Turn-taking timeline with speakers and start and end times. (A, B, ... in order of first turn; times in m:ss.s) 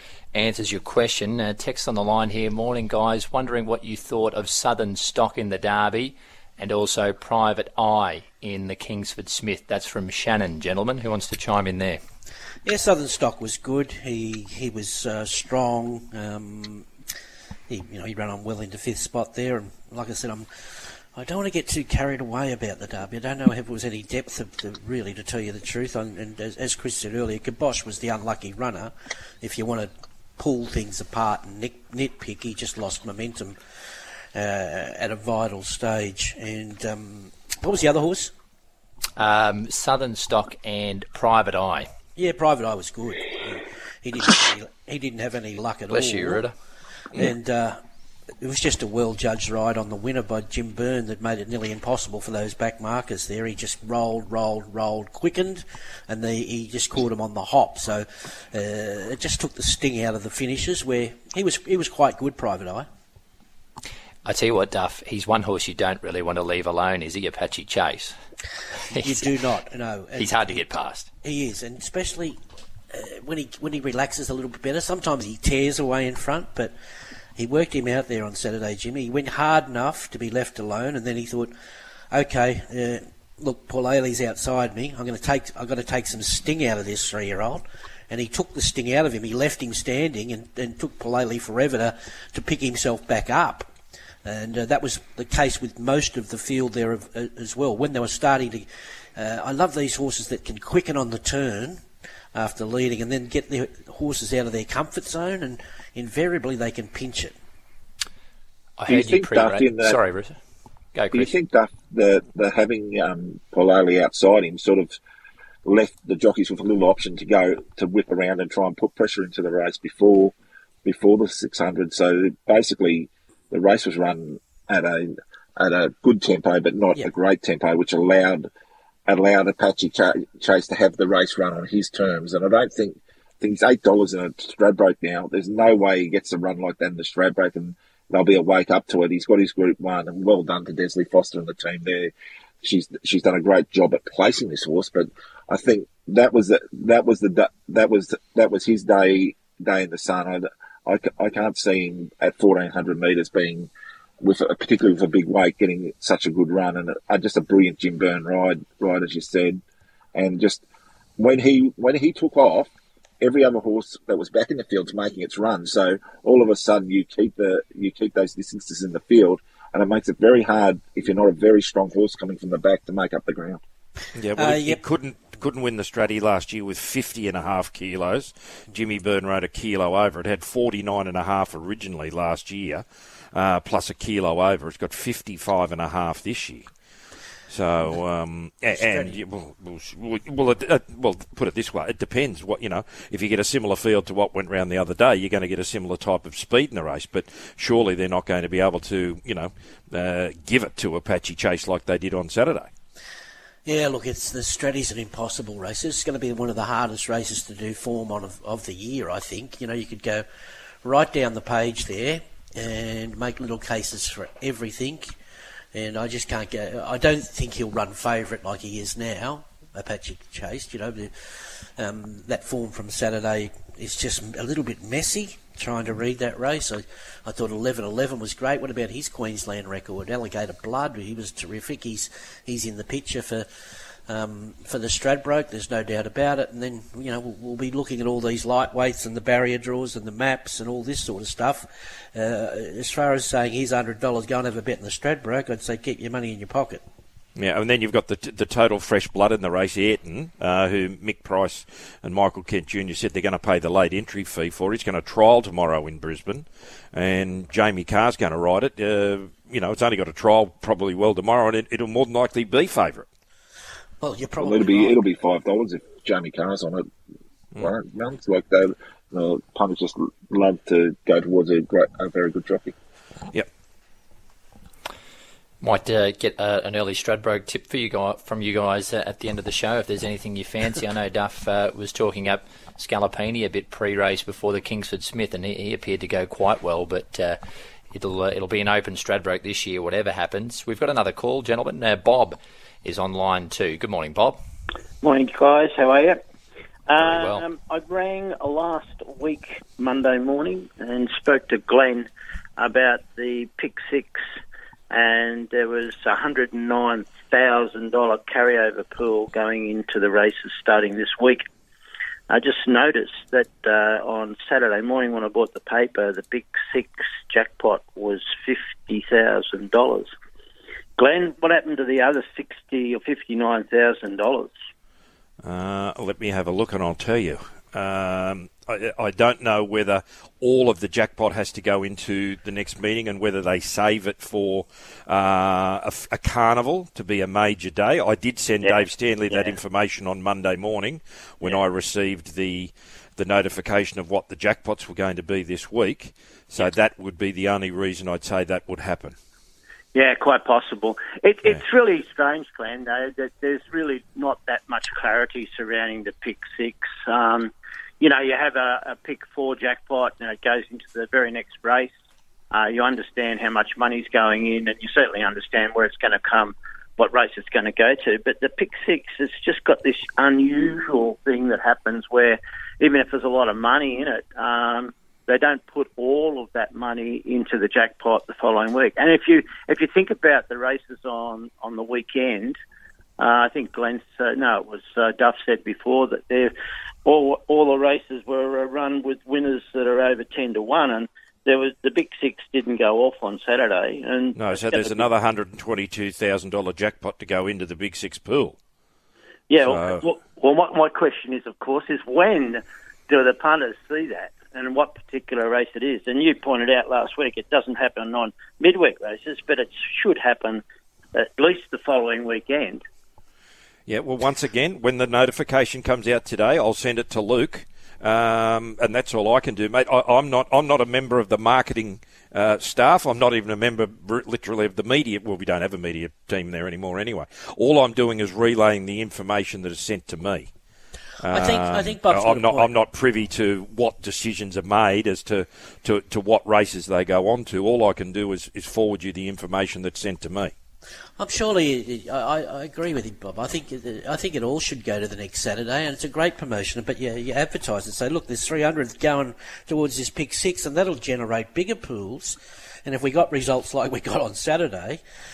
0:00.3-0:12.0 A
0:12.6-0:16.9 B
0:17.7-0:33.6 B
0:34.3-0:38.3 B
0:39.2-0:41.9 A
0:42.2-0:46.5 B
0:45.9-0:46.5 A
0:47.1-0:47.8 B
0:48.4-1:02.9 B
1:04.2-1:08.2 A
1:08.9-1:09.3 A
1:09.0-1:10.6 B
1:10.2-1:11.1 A
1:11.2-1:12.4 B
1:12.9-1:16.7 B
1:17.4-1:21.5 B
1:22.1-1:33.7 B
1:34.2-1:47.4 B
1:48.8-1:50.4 A
1:48.9-1:50.0 C
1:51.0-1:51.3 A
1:51.1-1:55.0 C
1:55.6-2:00.3 C
2:00.8-2:08.5 C
2:09.1-2:33.7 C
2:34.2-2:39.6 C
2:40.2-2:40.6 C
2:41.2-2:53.6 C
2:54.2-3:06.7 D
2:54.4-2:54.8 B
3:07.5-3:22.7 D
3:08.7-3:09.2 B
3:23.7-3:30.2 B
3:30.8-3:35.2 B
3:35.7-4:06.8 B
4:07.4-4:23.1 D
4:24.0-4:25.0 B
4:24.4-4:26.9 C
4:27.6-4:32.8 C
4:35.6-4:47.4 A
4:47.9-4:54.4 A
4:55.0-4:56.2 E
4:56.9-5:04.2 E
4:57.0-4:57.4 A
5:04.9-5:11.4 E
5:12.3-5:20.1 E
5:21.0-5:24.6 E
5:25.4-5:49.2 D
5:38.6-5:39.6 E
5:49.9-6:01.9 E
6:02.5-6:22.6 E
6:23.2-6:26.5 E
6:27.0-6:35.1 E
6:34.4-6:38.6 D
6:39.5-6:50.6 E
6:39.6-6:40.0 D
6:51.2-6:52.8 E
6:53.9-7:10.5 D
7:11.2-7:20.5 D
7:11.3-7:12.7 B
7:21.2-7:35.0 B